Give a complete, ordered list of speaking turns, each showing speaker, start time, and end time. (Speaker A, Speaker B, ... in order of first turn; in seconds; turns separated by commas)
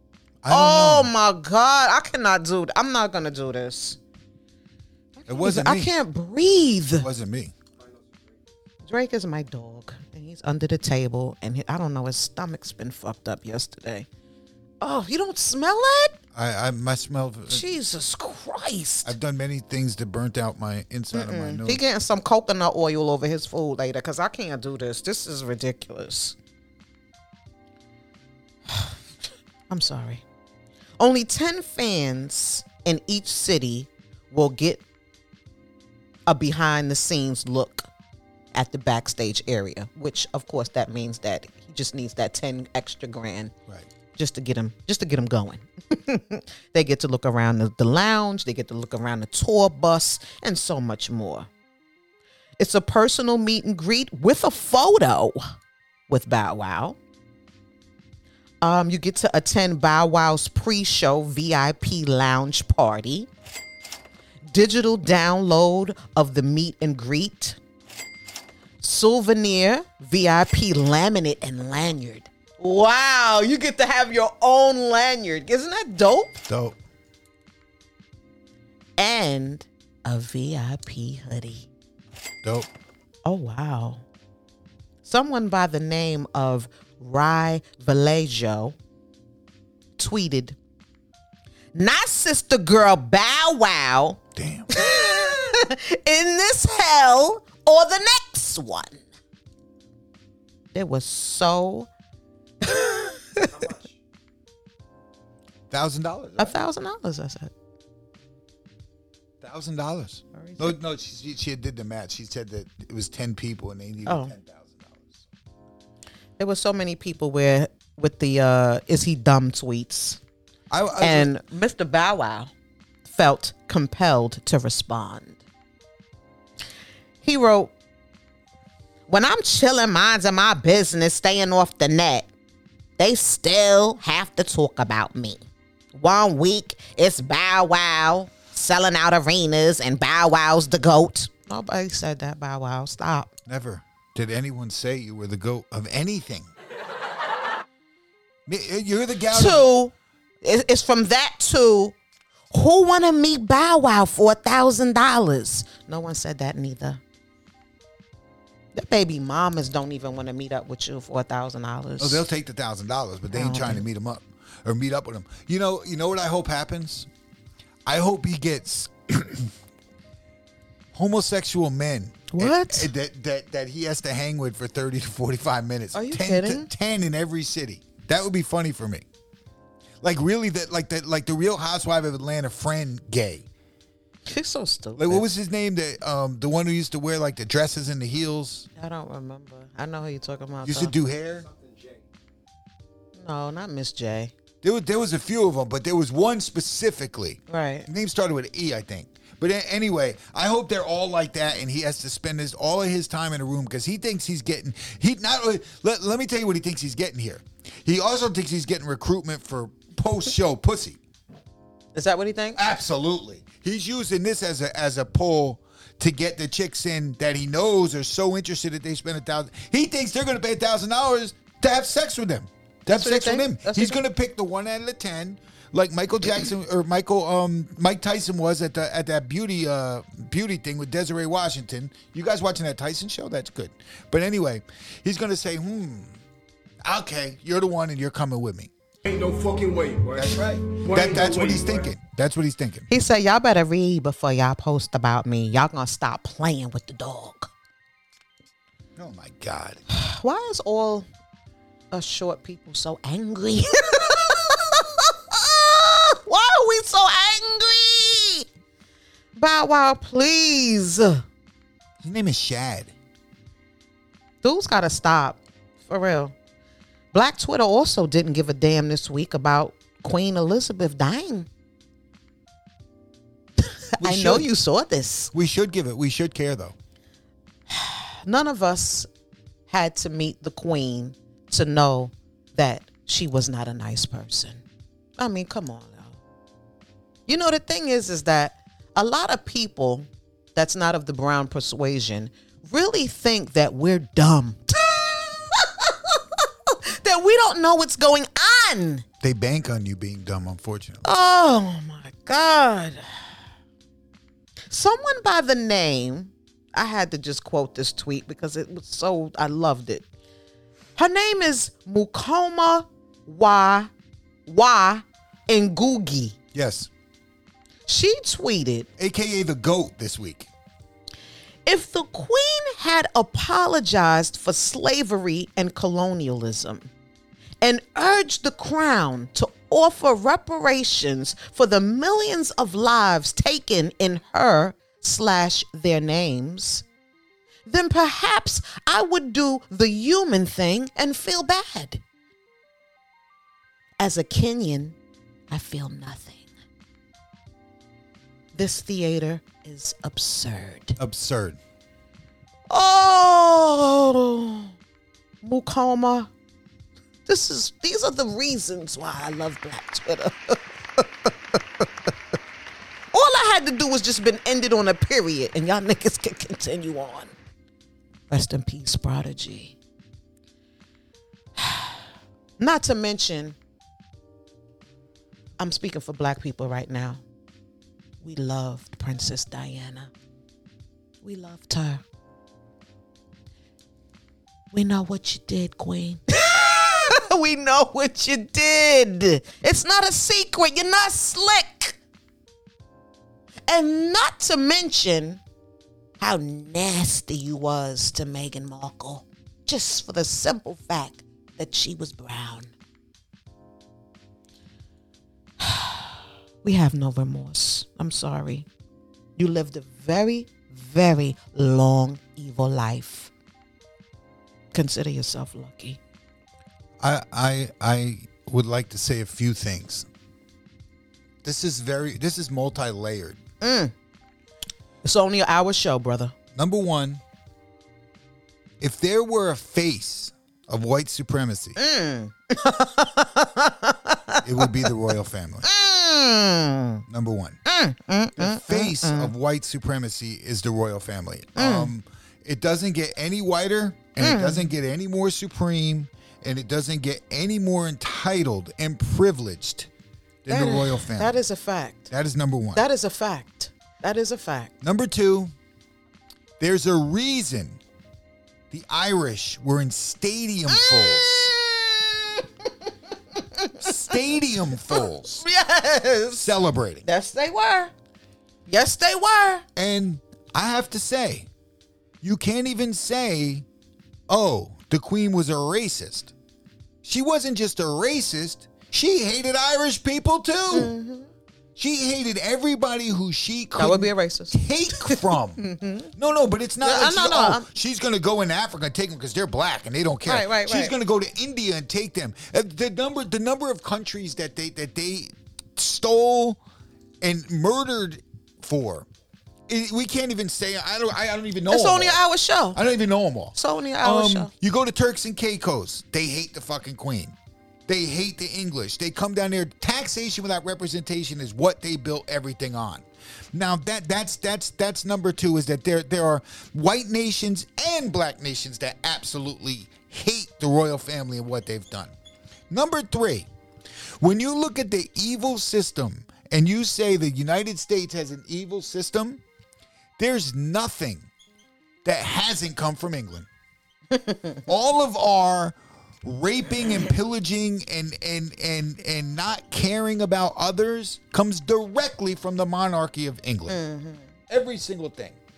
Speaker A: 0.4-1.1, Speaker B: 0.5-4.0, Speaker B: 5.2-7.1, Speaker A: 5.3-5.9, Speaker A: 7.0-7.5, Speaker B: 8.8-14.1, Speaker B: 14.8-16.2, Speaker A: 16.3-17.7, Speaker B: 17.5-19.1, Speaker A: 19.0-21.8, Speaker B: 21.1-26.4, Speaker B: 28.7-28.9, Speaker B: 29.7-30.2, Speaker B: 31.0-34.8, Speaker B: 36.3-37.9, Speaker B: 38.5-43.5, Speaker B: 44.1-51.5, Speaker B: 52.6-55.5, Speaker B: 56.1-57.0, Speaker B: 58.6-63.3, Speaker B: 64.5-67.6, Speaker B: 68.8-76.4, Speaker A: 76.5-76.7, Speaker B: 79.0-81.7, Speaker A: 82.4-82.7, Speaker B: 83.2-84.0, Speaker B: 85.0-88.7, Speaker B: 90.0-90.6, Speaker B: 91.7-94.2, Speaker A: 94.3-95.2, Speaker B: 94.7-99.0, Speaker B: 100.7-101.9, Speaker B: 102.6-103.7, Speaker A: 105.7-106.6, Speaker B: 106.4-107.5, Speaker A: 109.4-115.2, Speaker B: 110.3-110.8, Speaker B: 114.0-114.3, Speaker B: 116.4-120.2, Speaker A: 120.7-121.3, Speaker B: 121.0-122.5, Speaker B: 123.0-125.4, Speaker B: 127.2-127.7, Speaker B: 129.1-132.3, Speaker B: 133.0-135.4, Speaker B: 135.9-143.3, Speaker A: 143.4-146.5, Speaker A: 148.5-149.7, Speaker B: 149.3-151.9, Speaker B: 152.5-157.0, Speaker B: 158.7-162.2, Speaker A: 162.0-167.1, Speaker B: 163.3-163.8, Speaker A: 167.8-169.5, Speaker A: 170.9-179.0, Speaker B: 172.3-172.9, Speaker B: 175.9-176.7, Speaker A: 180.0-183.5, Speaker B: 184.3-185.2, Speaker A: 185.0-188.7, Speaker B: 188.8-190.9, Speaker A: 190.6-191.5, Speaker B: 193.2-194.3, Speaker A: 194.6-211.0, Speaker B: 197.5-197.9, Speaker B: 211.9-212.6, Speaker A: 212.6-236.2, Speaker B: 222.9-224.0, Speaker A: 236.8-238.7, Speaker C: 239.0-241.9, Speaker A: 240.1-242.9, Speaker B: 242.9-247.5, Speaker A: 249.0-249.8, Speaker B: 249.9-251.1, Speaker B: 251.9-258.4, Speaker B: 259.3-261.2, Speaker A: 262.0-262.9, Speaker B: 264.4-266.3, Speaker B: 267.1-271.5, Speaker B: 273.6-275.3, Speaker A: 274.0-274.5, Speaker A: 275.3-276.7, Speaker B: 277.7-279.1, Speaker B: 279.7-284.6, Speaker B: 285.2-286.1, Speaker B: 287.3-299.0, Speaker A: 299.2-301.0, Speaker B: 301.0-303.0, Speaker B: 304.7-310.1, Speaker B: 310.9-313.9, Speaker B: 314.4-316.4, Speaker A: 316.5-316.9, Speaker B: 317.9-318.9, Speaker A: 319.0-320.5, Speaker B: 321.6-326.9, Speaker B: 327.6-336.8, Speaker B: 337.6-342.0, Speaker B: 344.0-345.0, Speaker B: 345.5-346.4, Speaker B: 348.5-351.0, Speaker A: 351.0-351.6, Speaker B: 352.7-354.7, Speaker B: 355.4-356.3, Speaker B: 357.2-361.8, Speaker B: 363.1-367.3, Speaker B: 368.3-369.8, Speaker B: 371.6-371.9, Speaker B: 372.6-373.6, Speaker B: 375.6-377.2, Speaker B: 378.2-380.1, Speaker B: 381.2-382.0, Speaker B: 384.7-392.0, Speaker B: 393.7-395.4, Speaker B: 396.2-402.7, Speaker B: 405.6-406.1, Speaker B: 406.6-408.7, Speaker B: 409.4-413.3, Speaker B: 414.7-416.0, Speaker A: 417.0-420.1, Speaker A: 421.4-423.4, Speaker B: 423.6-423.9, Speaker B: 425.0-426.3, Speaker A: 426.5-427.2, Speaker A: 428.8-431.8, Speaker B: 431.8-434.9, Speaker A: 434.4-435.7, Speaker B: 435.6-437.0, Speaker A: 437.1-437.6, Speaker B: 437.6-439.3, Speaker A: 438.4-449.9, Speaker B: 441.6-441.9, Speaker B: 444.2-444.7, Speaker A: 450.4-451.4, Speaker B: 450.5-452.1, Speaker A: 452.1-452.8, Speaker B: 452.7-454.7, Speaker A: 454.8-455.5, Speaker A: 456.6-457.8, Speaker A: 458.7-461.5, Speaker B: 460.7-464.3, Speaker A: 463.8-465.4, Speaker B: 464.9-466.5, Speaker A: 466.4-467.0, Speaker B: 467.0-467.9, Speaker B: 468.7-469.6, Speaker A: 469.8-471.5, Speaker A: 472.2-473.6, Speaker A: 474.3-476.3, Speaker A: 477.0-480.9, Speaker B: 480.7-481.3, Speaker A: 481.8-485.6, Speaker B: 483.8-486.1, Speaker A: 486.1-496.6, Speaker B: 486.8-487.6, Speaker B: 490.2-490.9, Speaker A: 497.2-499.1, Speaker A: 499.7-502.2, Speaker B: 501.7-502.8, Speaker A: 502.7-507.3, Speaker B: 503.5-504.5, Speaker A: 507.9-522.1, Speaker A: 522.7-523.5, Speaker A: 524.2-529.4, Speaker A: 530.2-531.3, Speaker A: 532.0-533.5, Speaker B: 534.1-534.6, Speaker A: 534.7-543.8, Speaker B: 543.7-544.3, Speaker A: 544.5-545.4